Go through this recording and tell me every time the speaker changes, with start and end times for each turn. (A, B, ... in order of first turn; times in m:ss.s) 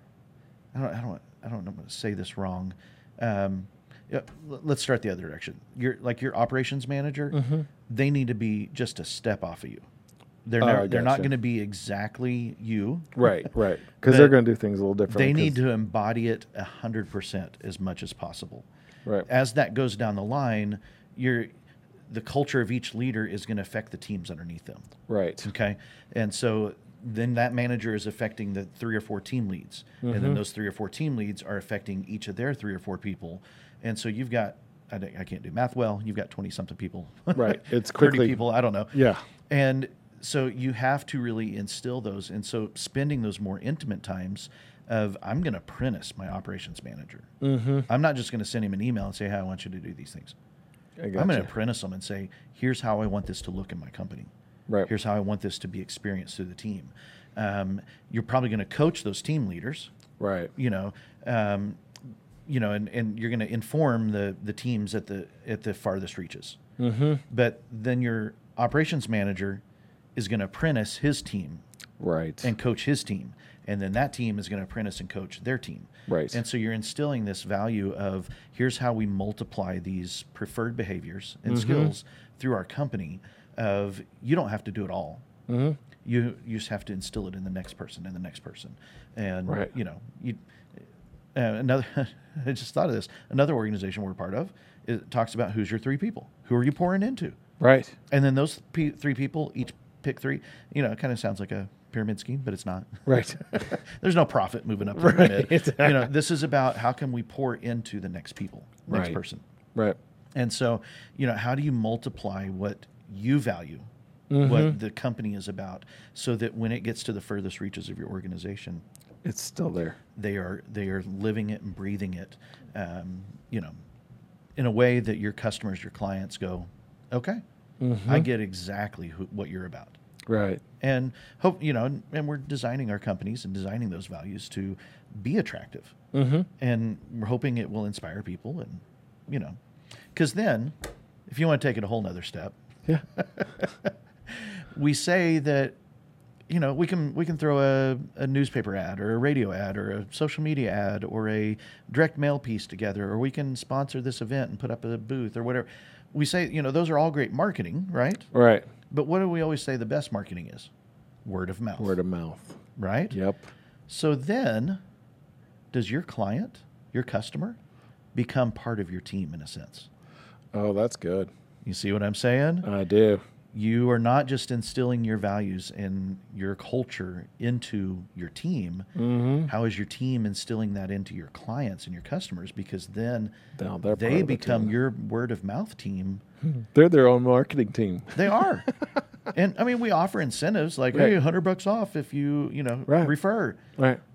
0:00.7-0:09.9 A
0:07.3-0:07.7 B
0:10.4-0:13.5 A
0:10.6-0:11.3 B
0:13.2-0:15.6 B
0:14.0-0:14.4 A
0:15.1-0:18.7 A
0:19.2-0:21.5 A
0:22.1-0:24.9 A
0:25.1-0:25.5 B
0:25.4-0:38.9 A
0:30.0-0:30.4 B
0:37.4-0:39.2 B
0:39.5-0:47.3 A
0:47.4-0:47.9 B
0:47.9-0:50.4 A
0:51.0-0:51.5 B
0:51.2-0:54.3 A
0:54.8-0:59.9 A
1:00.2-1:00.5 B
1:00.6-1:01.8 A
1:02.5-1:06.6 A
1:06.8-1:07.2 B
1:07.3-1:09.6 A
1:10.2-1:11.6 A
1:12.0-1:12.5 B
1:12.4-1:25.2 A
1:16.1-1:16.4 B
1:21.5-1:21.9 B
1:25.5-1:25.8 B
1:26.0-1:30.4 A
1:31.4-1:37.4 A
1:37.6-1:38.0 B
1:38.1-1:49.4 A
1:43.1-1:43.7 B
1:44.9-1:46.1 B
1:48.9-1:49.2 B
1:50.4-1:53.9 A
1:54.3-1:54.8 B
1:54.4-1:58.8 A
1:59.2-2:00.0 B
2:00.2-2:03.7 A
2:04.6-2:07.4 A
2:07.8-2:08.3 B
2:08.1-2:10.0 A
2:10.3-2:10.6 B
2:10.8-2:16.0 A
2:16.1-2:16.5 B
2:16.6-2:19.6 A
2:20.1-2:20.8 A
2:21.3-2:22.6 A
2:23.2-2:25.8 A
2:26.5-2:38.3 A
2:38.3-2:38.7 B
2:38.9-2:40.7 A
2:41.2-2:42.0 A
2:41.8-2:42.6 B
2:42.8-2:43.2 A
2:43.1-2:43.5 B
2:43.9-2:44.8 A
2:45.7-2:47.6 A
2:48.2-2:49.9 A
2:50.5-2:51.3 B
2:51.6-2:52.7 A
2:52.6-2:53.2 B
2:53.5-2:58.9 A
2:59.0-2:59.5 B
2:59.5-3:03.3 A
3:03.6-3:04.7 B
3:03.9-3:06.2 A
3:06.6-3:08.8 B
3:08.1-3:08.7 A
3:09.3-3:13.6 A
3:12.9-3:13.1 B